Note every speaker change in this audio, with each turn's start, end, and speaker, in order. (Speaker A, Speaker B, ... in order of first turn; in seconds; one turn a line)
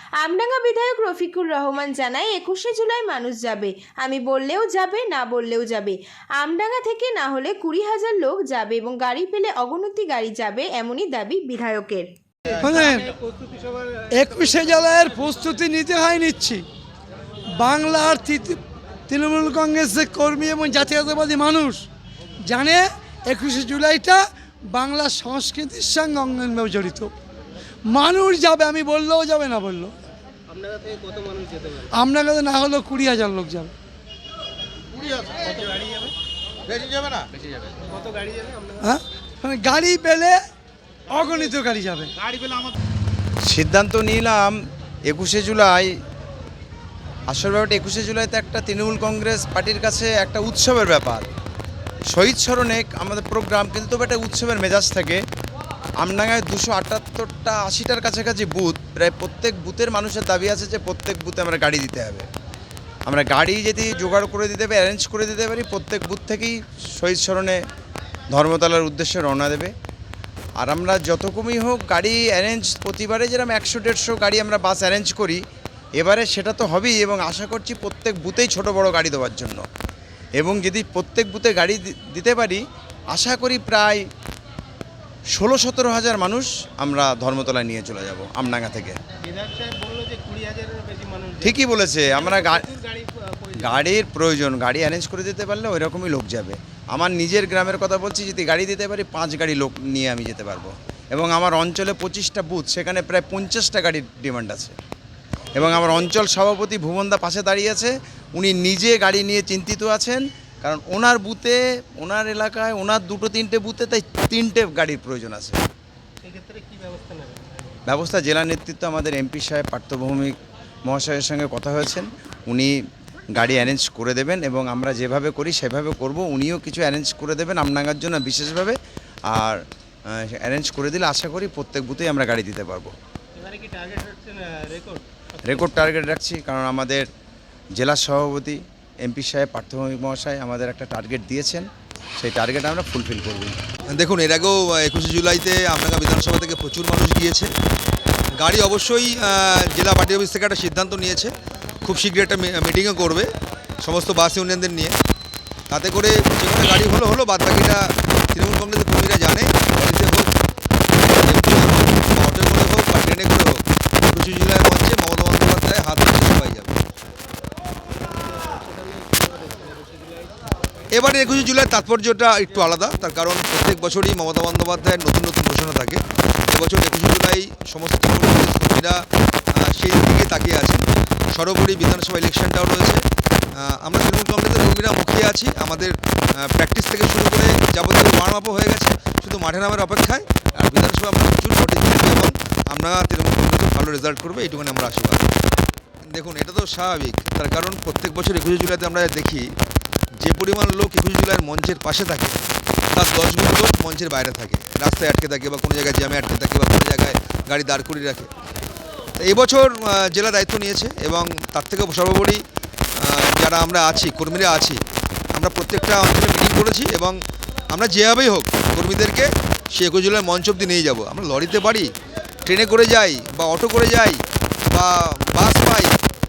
Speaker A: 0.2-12.1
Speaker B: 12.5-15.2
Speaker C: 12.6-13.1
Speaker C: 14.1-16.7
Speaker C: 17.5-21.9
Speaker C: 22.4-27.1
Speaker C: 27.9-30.0
Speaker B: 30.5-31.9
Speaker C: 31.9-33.7
Speaker B: 35.0-36.1
Speaker B: 36.7-38.9
Speaker C: 38.8-40.4
Speaker C: 41.1-42.1
Speaker B: 41.2-41.5
Speaker D: 43.4-46.0
Speaker D: 47.3-51.3
Speaker D: 52.1-55.2
Speaker D: 56.0-62.3
Speaker D: 63.1-67.6
Speaker D: 68.3-69.7
Speaker D: 70.6-75.4
Speaker D: 76.0-79.6
Speaker D: 80.4-84.0
Speaker D: 85.3-89.0
Speaker B: 89.2-91.6
Speaker D: 91.4-92.7
Speaker B: 92.1-93.8
Speaker D: 93.6-104.8
Speaker D: 105.6-115.6
Speaker B: 116.2-117.8
Speaker D: 117.9-120.4
Speaker D: 120.9-122.8
Speaker D: 123.3-128.8
Speaker D: 129.3-132.9
Speaker B: 133.3-135.7
Speaker D: 135.4-137.1
Speaker D: 137.8-143.6
Speaker E: 143.9-147.5
Speaker E: 148.4-151.3
Speaker E: 151.8-153.3
Speaker E: 153.8-154.9
Speaker E: 155.7-160.3
Speaker E: 161.0-166.8
Speaker B: 168.1-170.3
Speaker E: 170.9-179.0
Speaker E: 179.6-180.8
Speaker E: 181.3-183.0
Speaker E: 183.6-195.2
Speaker E: 196.1-199.5
Speaker E: 200.2-202.4
Speaker E: 202.9-208.3
Speaker E: 209.2-212.4
Speaker E: 213.0-214.8
Speaker E: 215.3-217.2
Speaker E: 217.7-221.9
Speaker E: 222.5-225.9